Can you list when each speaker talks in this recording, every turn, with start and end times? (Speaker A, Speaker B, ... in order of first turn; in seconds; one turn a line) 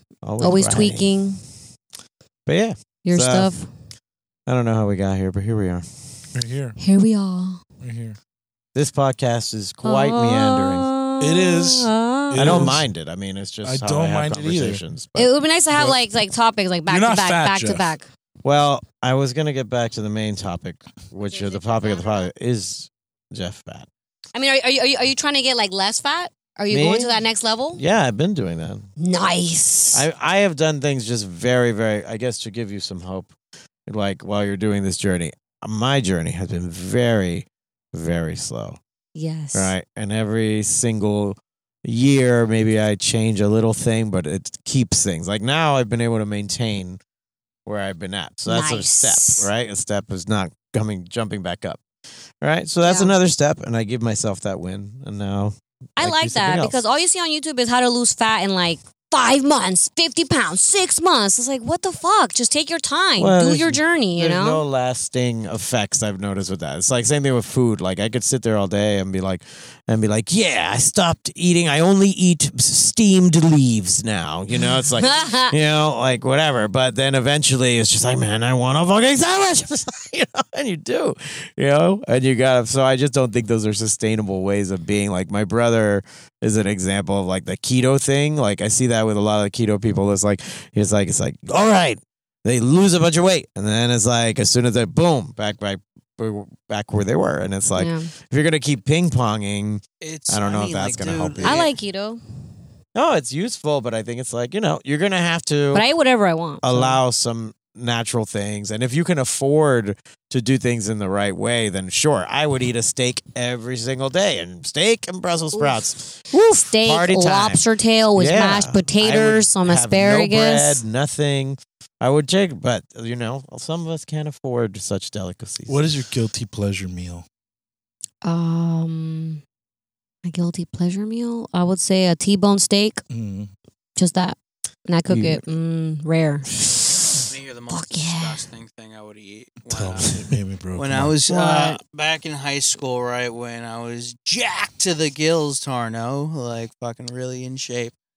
Speaker A: 0.2-1.1
Speaker B: 0.4-1.4
Speaker A: 2.5-3.5
Speaker B: 3.0-3.7
Speaker A: 4.5-5.8
Speaker C: 6.3-6.8
Speaker B: 6.8-7.6
Speaker C: 7.8-8.2
Speaker A: 8.8-10.9
Speaker B: 9.8-12.7
Speaker C: 11.2-12.9
Speaker A: 12.3-15.3
Speaker C: 13.6-14.8
Speaker B: 15.2-18.1
Speaker C: 15.7-16.0
Speaker C: 16.9-17.9
Speaker A: 18.4-23.9
Speaker B: 21.2-22.3
Speaker B: 24.4-27.8
Speaker A: 26.7-27.2
Speaker A: 27.7-28.9
Speaker B: 29.0-30.1
Speaker A: 29.9-33.3
Speaker A: 33.9-38.8
Speaker B: 39.1-39.7
Speaker A: 39.5-47.0
Speaker A: 47.7-51.8
Speaker B: 48.5-49.5
Speaker A: 52.4-56.8
Speaker B: 52.8-53.1
Speaker B: 56.0-64.6
Speaker A: 63.2-101.7
Speaker B: 75.0-75.5
Speaker B: 97.8-98.1
Speaker D: 100.0-101.8
Speaker B: 101.4-102.2
Speaker A: 103.0-105.9
Speaker B: 105.7-107.0
Speaker A: 106.6-117.6
Speaker B: 115.5-120.8
Speaker A: 118.2-125.8
Speaker C: 125.7-127.2
Speaker B: 128.2-129.4
Speaker B: 130.2-133.0
Speaker C: 133.1-133.5
Speaker B: 134.0-136.5
Speaker A: 135.1-135.4
Speaker D: 137.3-140.2
Speaker B: 137.7-138.4
Speaker C: 139.7-141.2
Speaker D: 140.8-147.9
Speaker B: 141.3-141.8